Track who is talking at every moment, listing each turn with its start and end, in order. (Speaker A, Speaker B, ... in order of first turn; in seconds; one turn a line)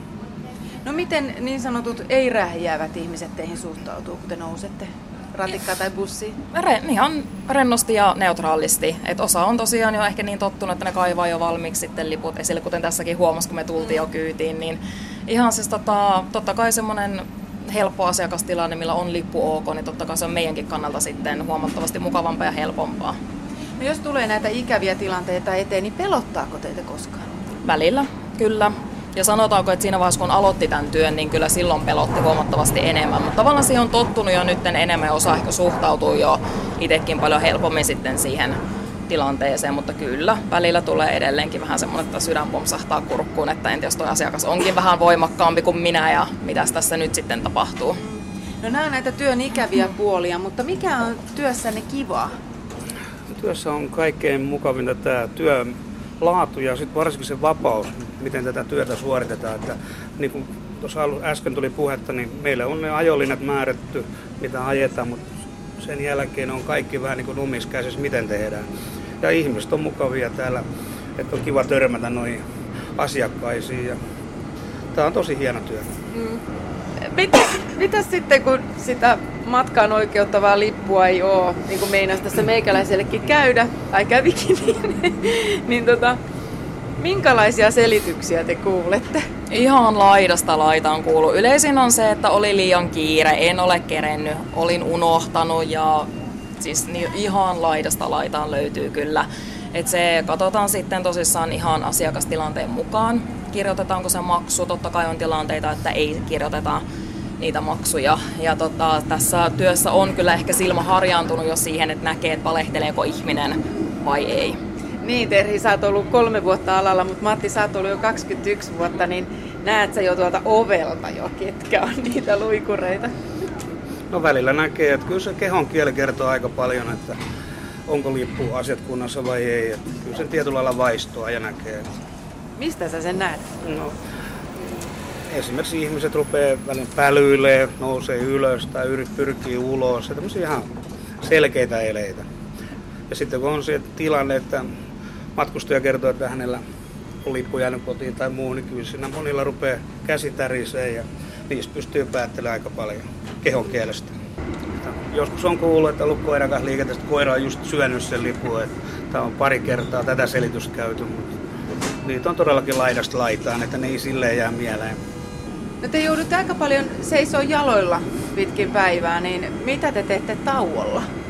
Speaker A: 0.8-6.4
Speaker B: 6.5-23.2
Speaker A: 23.8-27.2
Speaker B: 27.6-38.6
Speaker B: 39.1-48.0
Speaker A: 48.0-52.3
Speaker C: 53.3-68.7
Speaker C: 69.2-70.6
Speaker C: 71.2-72.4
Speaker C: 73.0-74.0
Speaker C: 74.9-75.9
Speaker A: 76.1-76.4
Speaker A: 77.0-86.2
Speaker A: 87.0-89.2
Speaker B: 89.5-96.1
Speaker B: 96.6-106.8
Speaker B: 107.4-114.6
Speaker A: 115.0-123.1
Speaker C: 124.1-127.2
Speaker C: 127.9-131.8
Speaker A: 132.6-133.4
Speaker C: 133.6-133.9
Speaker C: 135.3-142.2
Speaker C: 143.1-144.7
Speaker C: 145.3-146.6
Speaker C: 147.2-154.2
Speaker C: 154.8-161.4
Speaker C: 162.0-165.0
Speaker A: 165.8-171.1